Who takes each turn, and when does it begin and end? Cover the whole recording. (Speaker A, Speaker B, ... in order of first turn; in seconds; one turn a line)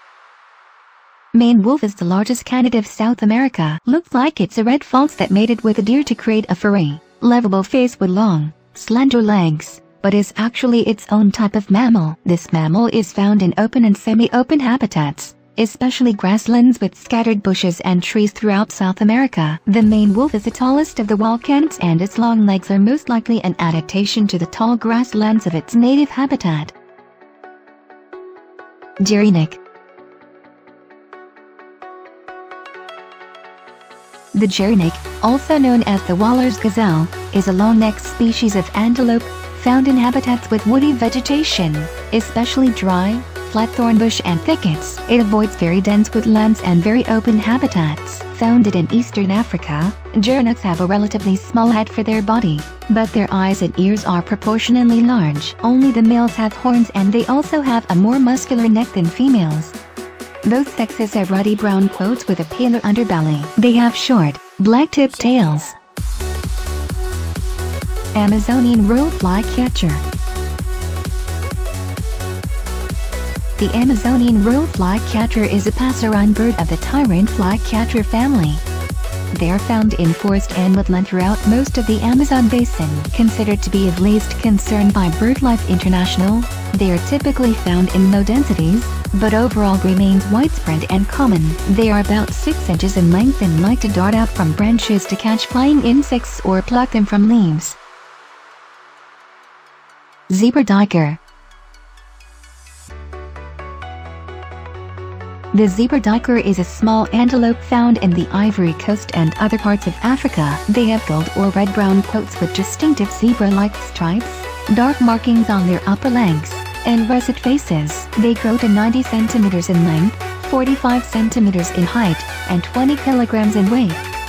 Speaker A: 1.3-26.7
Speaker A: 29.0-29.6
Speaker A: 34.3-59.8
Speaker A: 60.4-65.7
Speaker A: 68.1-70.0
Speaker A: 73.6-78.6
Speaker A: 79.3-97.8
Speaker A: 100.3-101.2
Speaker A: 105.5-124.0